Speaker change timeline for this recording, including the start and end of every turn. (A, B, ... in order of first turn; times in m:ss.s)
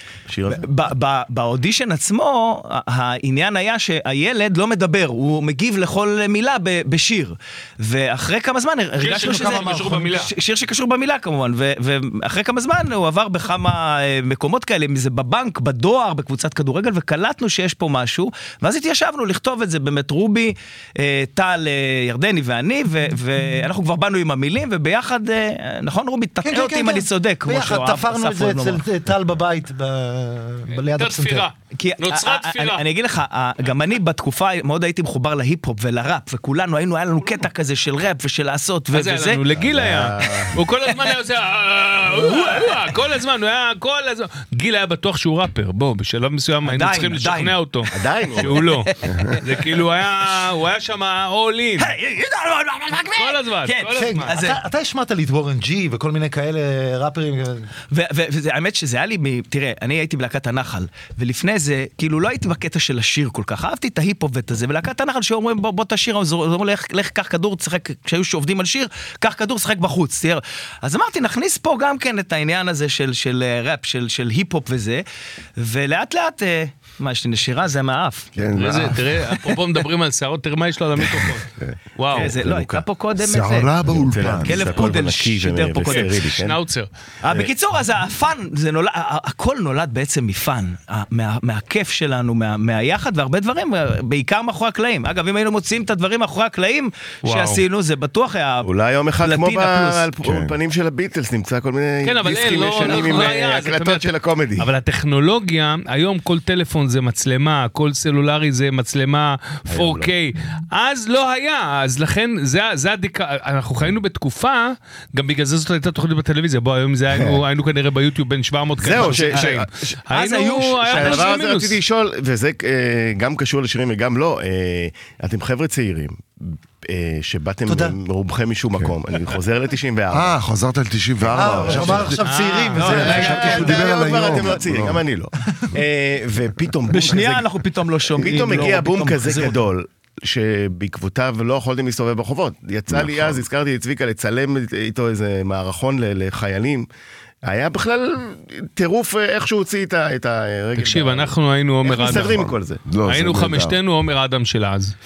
0:00.3-0:00.7 A
0:00.5-0:28.9 B
0:09.0-0:10.3 C
0:09.2-0:10.1 D
0:26.4-0:31.5 D
0:30.7-0:32.8 C
0:31.7-0:39.4 B
0:38.9-0:51.9 C
0:39.5-0:40.6 A
0:42.1-0:42.7 B
0:46.6-0:47.6 B
0:47.9-0:48.7 A
0:48.5-0:49.4 B
0:51.8-0:54.6 B
0:53.2-0:54.4 C
0:54.0-0:57.7 D
0:57.9-1:15.0 B
1:15.6-1:18.3 B
1:18.4-1:19.3 E
1:18.6-1:21.5 C
1:21.2-1:22.8 A
1:22.0-1:22.3 C
1:22.1-1:26.1 B
1:23.2-1:24.8 E
1:23.9-1:26.6 A
1:25.9-1:26.9 C
1:27.2-1:38.7 B
1:37.2-1:37.6 C
1:38.6-1:44.7 A
1:39.2-1:40.1 B
1:40.2-1:40.5 E
1:42.0-2:01.8 C
1:42.9-1:43.3 B
1:49.7-1:50.1 A
1:57.1-1:57.4 A
1:58.8-2:00.0 A
1:59.0-1:59.5 B
2:00.1-2:01.3 B
2:00.9-2:10.4 A
2:07.7-2:08.0 D
2:10.1-2:12.2 E
2:11.2-2:12.2 A
2:11.4-2:13.5 D
2:12.2-2:13.8 C
2:12.8-2:15.0 E
2:12.8-2:17.5 A
2:12.8-2:13.4 B
2:16.9-2:19.6 B
2:18.1-2:26.9 A
2:22.9-2:23.4 E
2:27.4-2:32.8 A
2:30.8-2:32.4 C
2:32.0-2:33.8 E
2:33.1-2:34.9 C